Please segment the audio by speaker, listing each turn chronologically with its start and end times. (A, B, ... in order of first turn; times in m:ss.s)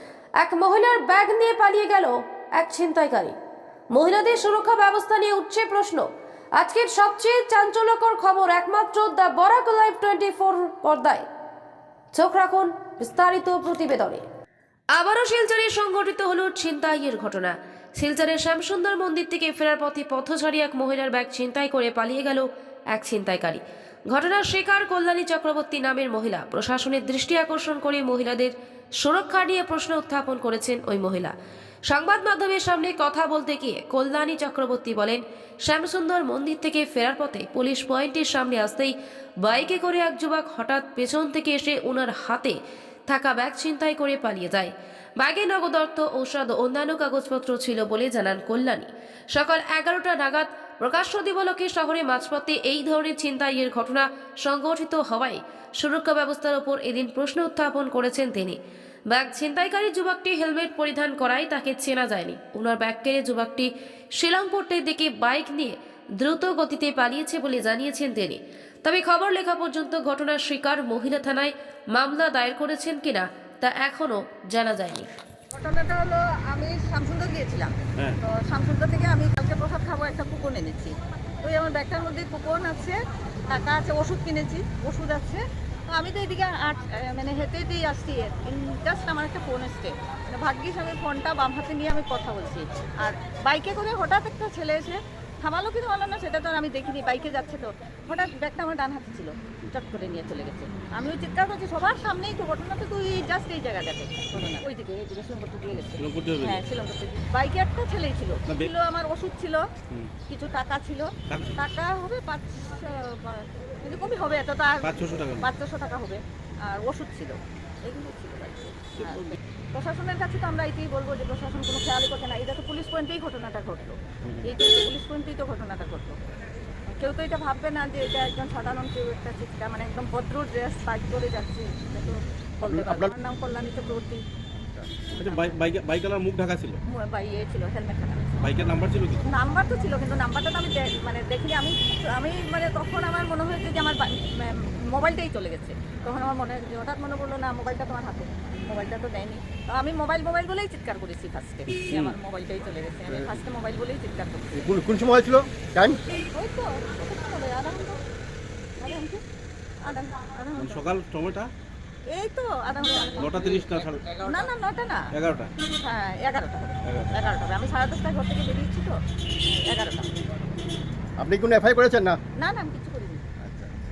0:00.4-0:03.3 A
0:03.9-0:11.2 A
0:12.1-0:14.2 A
0:15.0-0:31.3 A
0:31.9-0:42.6 A
0:43.1-0:58.6 A
0:59.1-1:15.1 A
1:15.5-1:23.0 B
1:23.5-1:49.6 B
1:46.0-1:46.6 C
1:48.5-1:48.7 C
1:50.3-2:06.1 B
1:51.3-1:51.6 C
1:54.8-1:55.5 C
1:59.0-1:59.4 C
2:04.2-2:04.5 C
2:07.0-2:14.2 B
2:12.7-2:13.1 D
2:15.2-2:16.8 C
2:16.9-2:18.5 B
2:18.4-2:19.2 C
2:19.3-2:34.8 B
2:31.9-2:32.2 C
2:34.5-2:36.0 D
2:36.3-2:38.0 B
2:38.8-2:39.2 B
2:39.8-2:40.9 B
2:40.6-2:41.5 C
2:42.1-2:43.3 B
2:43.2-2:44.2 C
2:44.2-2:45.1 B
2:45.1-2:45.5 C
2:45.8-2:50.1 B
2:46.8-2:47.1 C
2:51.2-2:52.2 D
2:52.4-2:53.2 B